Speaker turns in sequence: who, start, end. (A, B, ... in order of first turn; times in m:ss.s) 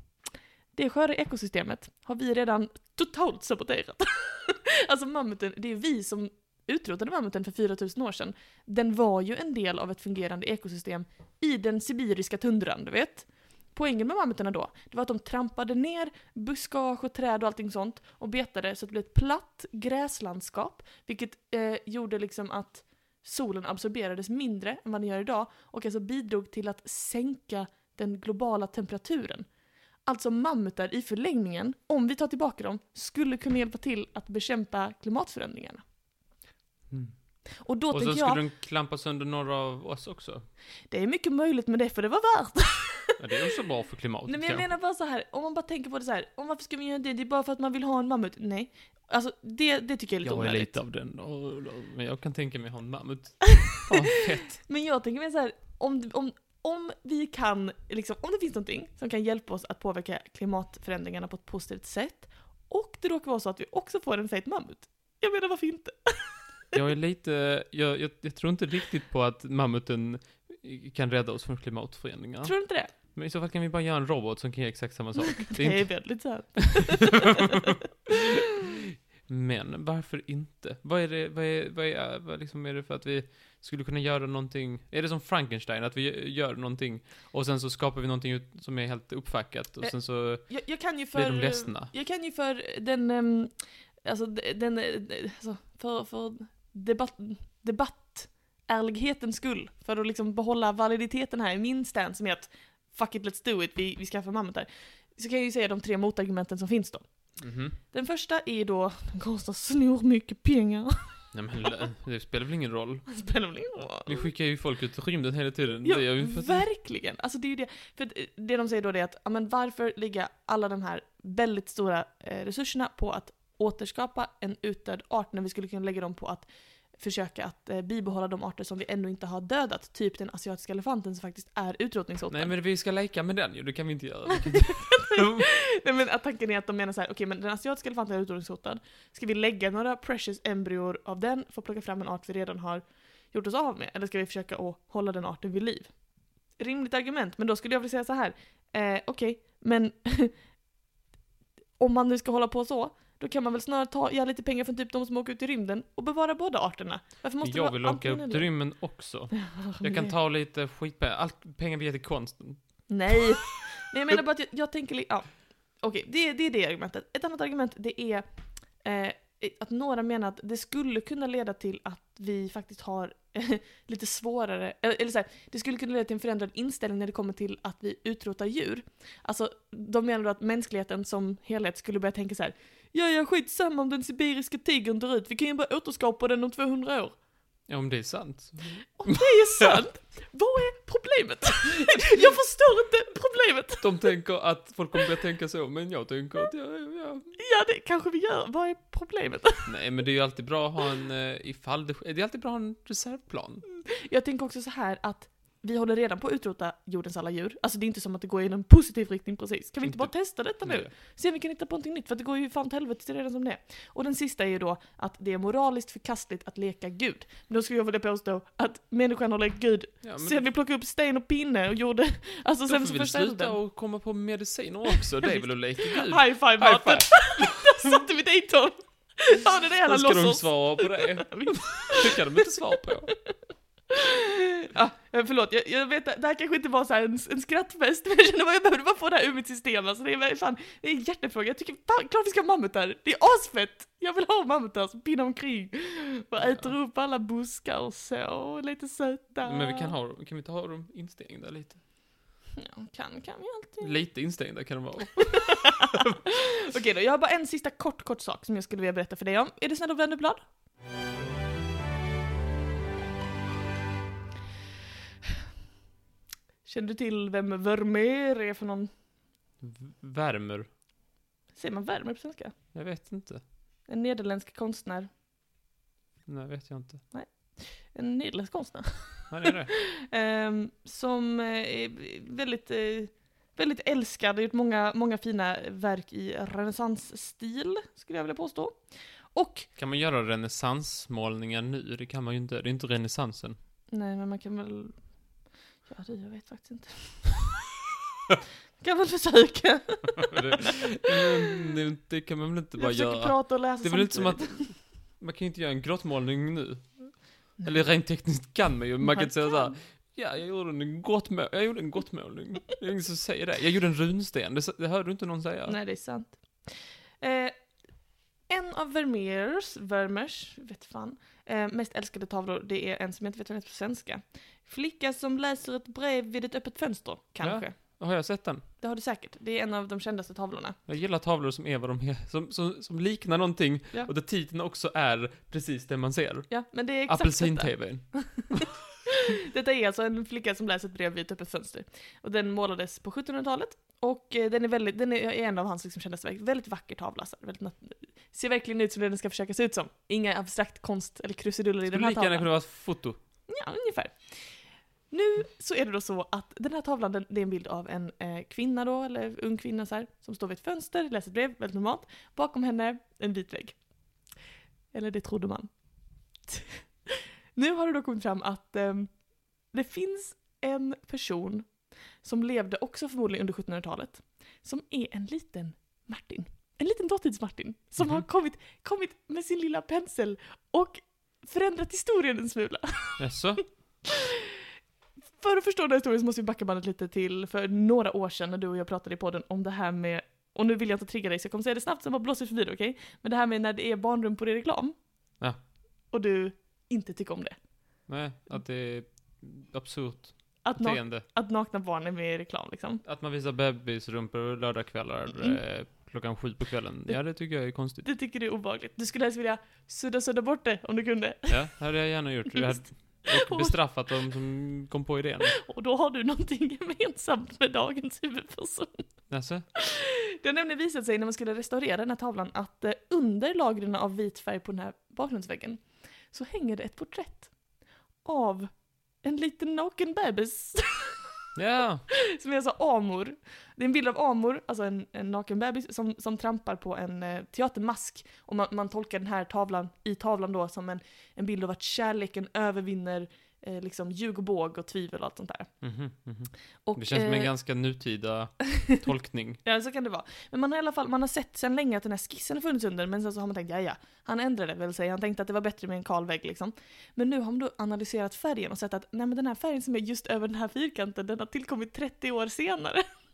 0:00.7-0:29.5 A
0:30.0-0:35.8 A
0:36.9-0:37.1 B
0:37.6-0:38.4 A
0:37.9-0:40.4 B
0:40.9-0:43.2 A
0:43.2-0:44.7 B
0:44.3-0:50.7 A
0:50.2-0:54.6 B
0:53.5-1:06.3 A
1:06.7-1:31.9 B
1:12.4-1:12.9 A
1:15.5-1:18.4 A
1:29.8-1:33.5 A
1:34.0-1:47.0 A
1:47.4-1:47.8 B
1:47.9-1:51.2 A
1:51.3-1:53.1 B
1:53.1-1:54.2 A
1:54.0-1:56.6 B
1:55.8-2:12.5 A
2:12.3-2:15.4 B
2:14.3-2:25.9 A
2:26.6-2:30.3 A
2:31.8-2:38.5 A
2:37.4-2:43.3 B
2:39.3-2:40.1 A
2:42.9-2:45.3 A
2:45.8-2:48.2 A
2:48.8-3:07.1 A
3:07.7-3:09.8 B
3:09.0-3:14.0 A
3:11.8-3:12.2 B
3:13.8-3:17.4 B
3:17.4-3:19.7 A
3:19.6-3:23.6 B
3:23.8-3:43.6 A
3:29.8-3:30.9 B
3:40.0-3:40.4 B
3:42.7-3:48.0 B
3:45.2-3:53.1 A
3:49.8-3:53.1 B
3:53.9-4:09.9 A
4:06.4-4:06.7 B
4:09.4-4:11.8 B
4:12.6-4:13.9 A
4:13.8-4:16.2 B
4:15.2-4:20.4 A
4:26.6-4:28.9 A
4:29.6-4:30.7 B
4:31.5-4:32.5 A
4:32.7-4:33.4 B
4:33.9-4:35.1 A
4:36.3-4:37.0 B
4:37.1-4:48.8 A
4:39.3-4:39.7 B
4:49.3-4:49.7 A
4:49.8-4:53.6 B
4:53.9-4:55.0 A
4:55.8-4:57.4 A
4:58.8-5:01.6 A
5:00.2-5:15.8 B
5:02.8-5:04.7 A
5:09.0-5:09.7 A
5:15.7-5:17.6 A
5:18.5-5:27.8 A
5:27.4-5:28.6 B
5:28.8-5:30.8 A
5:30.9-5:38.7 B
5:36.5-5:52.5 A
5:51.9-5:53.2 B
5:53.5-5:54.5 A
5:55.1-6:03.8 A
6:04.9-6:05.7 A
6:06.5-6:09.1 A
6:09.7-6:11.7 A
6:12.2-6:23.2 A
6:18.0-6:18.2 B
6:23.2-6:23.6 B
6:24.0-6:24.6 A
6:25.4-6:34.9 A
6:36.1-6:37.6 A
6:38.1-6:41.2 B
6:40.6-6:43.0 A
6:43.0-6:48.1 B
6:48.0-6:51.7 A
6:51.5-6:55.6 B
6:52.5-6:53.7 A
6:55.5-6:59.0 A
6:59.3-6:59.6 B
6:59.8-7:07.5 A
7:08.2-7:08.7 A
7:09.2-7:11.3 A
7:11.5-7:12.0 B
7:12.1-7:25.7 A
7:25.8-7:29.6 B
7:26.8-7:27.5 A
7:29.6-7:43.0 A